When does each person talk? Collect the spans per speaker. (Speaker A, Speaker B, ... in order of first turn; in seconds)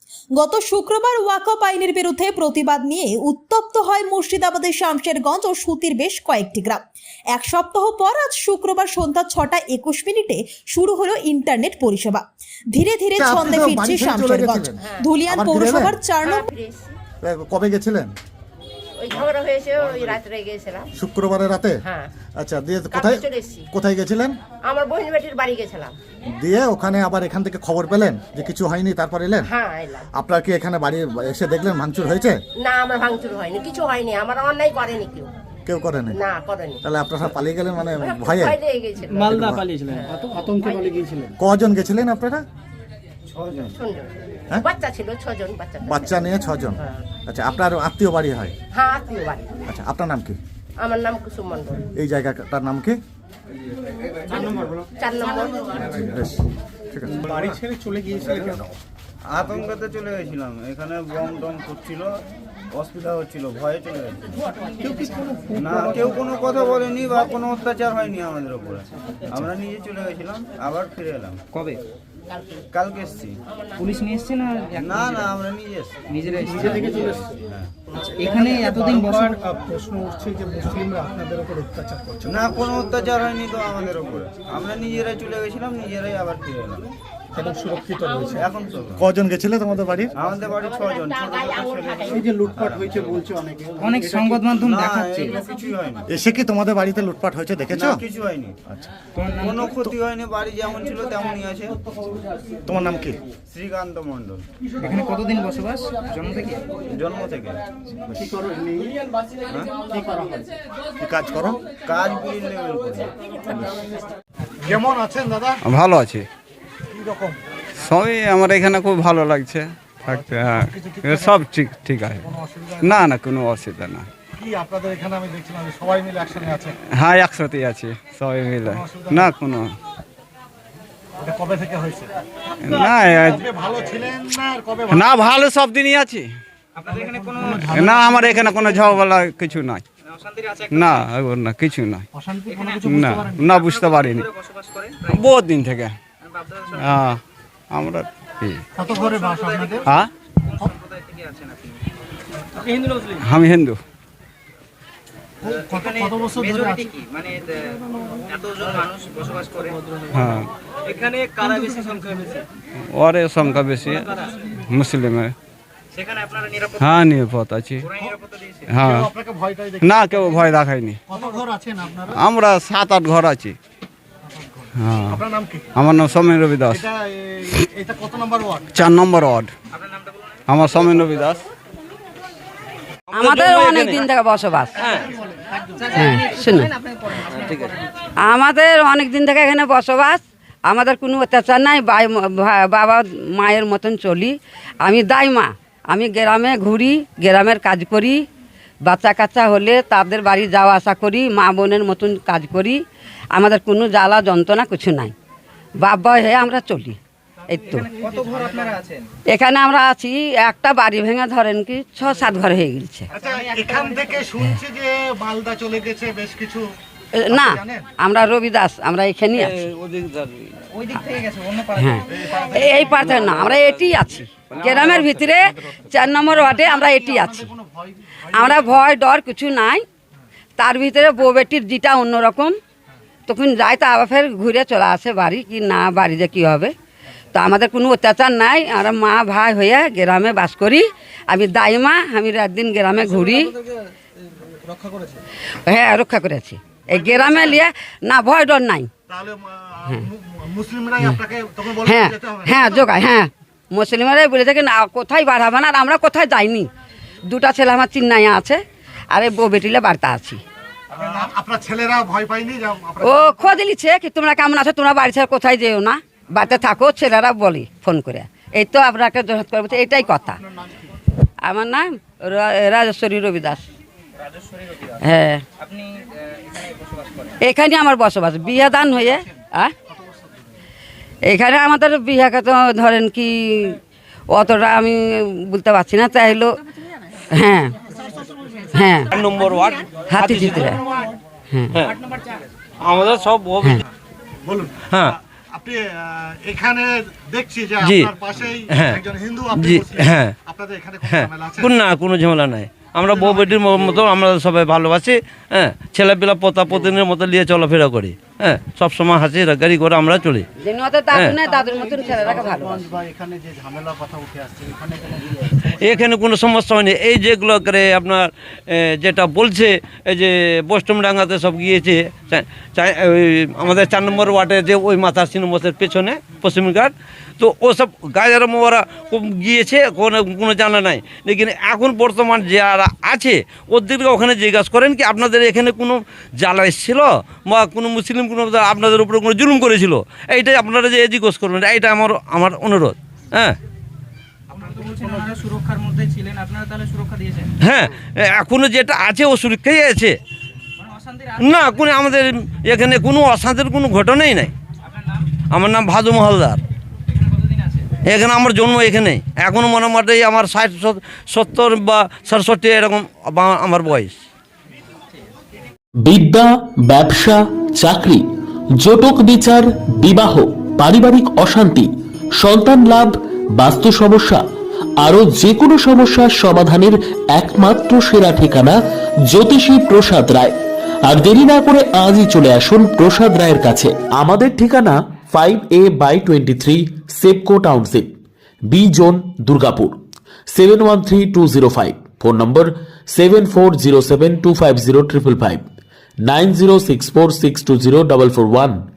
Speaker A: 0.3-16.5
Speaker B: 13.2-14.8, 15.3-15.9, 17.2-18.1, 20.9-21.8, 22.4-24.4, 26.4-29.5, 30.1-32.4, 35.7-36.2, 36.8-38.6, 39.2-39.7, 41.4-42.5, 45.9-48.6, 49.7-50.4, 52.0-53.0, 56.1-57.2, 89.0-90.1, 96.1-98.0, 102.7-103.2, 111.0-111.7, 114.6-115.6, 116.9-117.4, 120.1-121.3, 122.2-123.0, 124.4-126.8, 128.8-129.3, 131.2-132.1, 133.3-135.1, 148.8-149.7, 155.5-156.7, 168.8-170.1, 171.1-172.2, 174.4-175.7, 176.7-178.7, 213.1-216.7, 217.3-217.8, 226.5-228.4, 249.1-252.9, 261.0-263.3, 294.4-301.7
Speaker C: 14.8-15.1, 16.2-17.0, 19.0-20.9, 21.8-22.1, 22.9-23.7, 24.6-25.9, 29.4-30.1, 32.6-35.3, 36.1-36.8, 37.9-40.9, 43.8-47.0, 48.7-49.5, 50.8-51.9, 55.0-56.0, 90.9-92.2
Speaker D: 39.2-41.3, 57.2-58.8, 64.8-66.2, 76.6-77.2, 78.2-82.7, 87.3-88.5, 92.0-94.4, 108.2-108.9, 109.9-110.4, 137.9-138.8, 311.8-315.3
Speaker E: 43.3-43.8, 54.3-54.8, 59.3-62.2, 62.7-64.3, 65.5-71.4, 72.7-73.4, 74.8-77.7, 82.3-86.9, 88.2-89.1, 90.1-93.3, 94.5-96.1, 97.7-98.6, 99.4-101.8, 103.5-104.4, 106.9-108.3, 111.7-113.1
Speaker F: 71.5-71.8, 73.8-75.3, 76.1-76.7, 78.2-79.4, 93.8-95.4, 99.3-99.6, 104.8-106.6, 136.8-137.7, 140.2-140.8, 142.5-142.9, 143.6-145.1, 146.4-146.8, 148.8-149.8, 150.5-151.8, 152.8-153.1, 155.6-160.0, 160.9-162.4, 166.0-167.0, 167.9-168.6, 185.8-186.6, 207.7-209.1, 213.2-214.2, 220.7-222.0, 275.6-276.0, 344.5-347.5
Speaker G: 115.6-116.3, 117.8-124.1, 126.9-129.7, 132.6-133.4, 134.9-136.3, 137.6-139.8, 140.7-142.1, 142.8-144.3, 145.1-145.9, 146.8-147.2, 147.7-148.7, 149.8-150.1, 153.2-153.8, 160.1-160.5, 162.9-165.3, 166.8-167.9, 168.7-169.1, 169.8-171.0, 172.1-173.6, 174.8-175.2, 175.8-176.9, 178.7-179.5, 180.5-181.4
Speaker H: 183.1-184.8, 185.9-186.7, 188.2-198.2, 198.9-202.8, 203.3-205.1, 205.8-208.1, 209.3-213.1, 217.2-219.6, 221.8-227.5, 228.3-229.8, 230.6-232.6, 233.3-236.7, 237.3-243.6, 245.7-248.9, 251.8-256.7, 257.3-260.4, 263.0-270.4, 271.4-273.6, 275.0-275.4, 277.4-279.7, 281.3-283.8, 284.3-286.6, 287.3-287.8, 288.7-289.1, 290.1-290.8, 310.6-312.9
Speaker I: 183.2-184.1, 184.8-185.1, 187.3-187.8, 219.3-220.6, 222.4-223.7, 224.5-225.2, 289.1-290.8, 292.8-293.8, 294.9-295.1, 297.8-298.1, 298.7-299.0, 299.5-300.3, 301.1-310.5, 311.1-311.4, 315.6-343.6, 347.6-350.2, 351.4-354.5, 355.5-356.6, 358.1-364.2
Speaker J: 366.0-368.2, 368.8-374.4, 375.0-388.1, 388.7-390.0, 390.5-395.6, 396.2-398.8